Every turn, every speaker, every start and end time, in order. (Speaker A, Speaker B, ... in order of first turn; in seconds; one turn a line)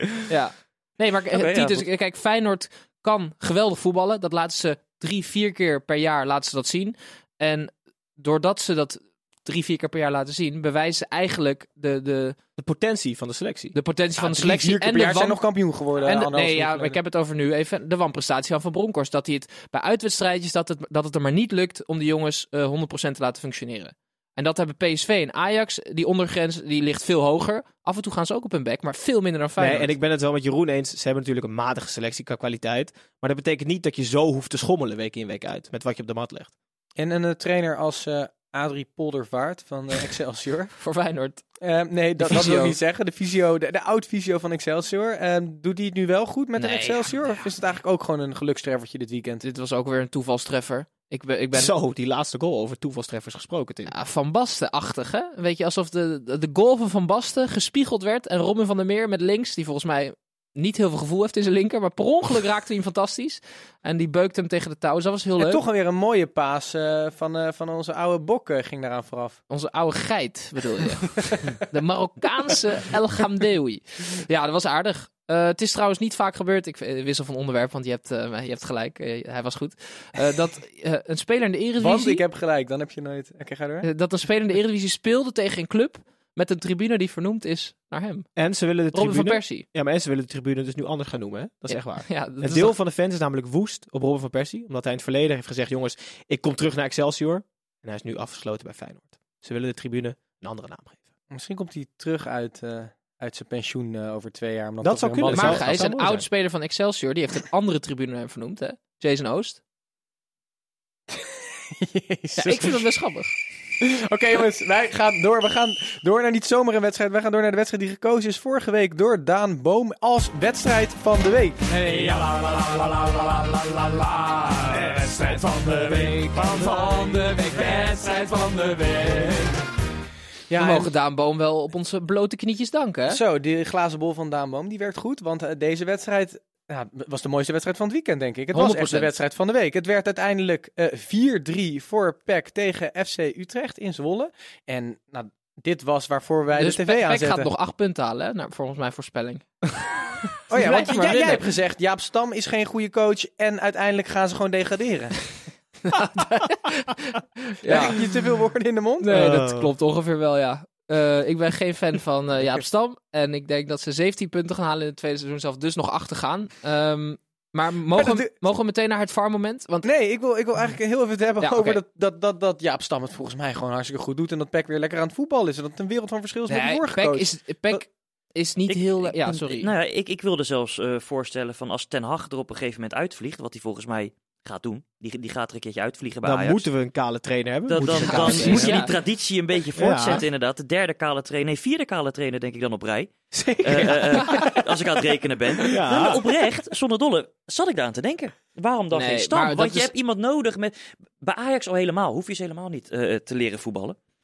Speaker A: 0.3-12.4
Speaker B: 1.3-1.9
Speaker C: 12.6-13.8
Speaker A: 13.7-15.4
Speaker D: 14.2-17.0
Speaker A: 16.0-29.9
Speaker C: 29.6-36.5
Speaker D: 37.0-40.7
Speaker A: 40.8-41.4
Speaker D: 41.6-49.4
Speaker A: 42.2-42.8
Speaker A: 46.6-47.1
Speaker A: 49.4-51.7
Speaker C: 51.5-53.9
Speaker A: 53.9-65.6
Speaker D: 65.4-69.4
Speaker A: 69.5-82.2
Speaker D: 71.2-71.5
Speaker D: 81.8-83.9
Speaker A: 83.8-88.3
Speaker C: 88.4-101.0
Speaker A: 88.9-89.7
Speaker A: 91.7-92.8
Speaker D: 101.3-105.7
Speaker C: 104.8-106.2
Speaker A: 105.3-109.6
Speaker D: 111.1-112.8
Speaker A: 112.4-113.3
Speaker D: 113.8-122.0
Speaker E: 121.7-129.6
Speaker D: 130.5-130.9
Speaker A: 130.6-133.2
Speaker D: 133.1-147.5
Speaker A: 138.5-139.1
Speaker A: 146.6-149.5
Speaker D: 150.5-155.3
Speaker A: 150.5-151.4
Speaker A: 155.9-158.0
Speaker D: 157.6-159.1
Speaker A: 159.0-169.9
Speaker C: 159.1-159.7
Speaker D: 167.9-168.3
Speaker D: 169.8-177.8
Speaker A: 171.4-171.8
Speaker A: 176.5-179.7
Speaker B: 178.7-186.7
Speaker C: 186.2-188.9
Speaker B: 187.7-193.1
Speaker A: 187.9-188.9
Speaker C: 189.8-190.2
Speaker C: 193.4-194.3
Speaker B: 193.6-204.0
Speaker C: 195.7-196.3
Speaker A: 198.9-199.9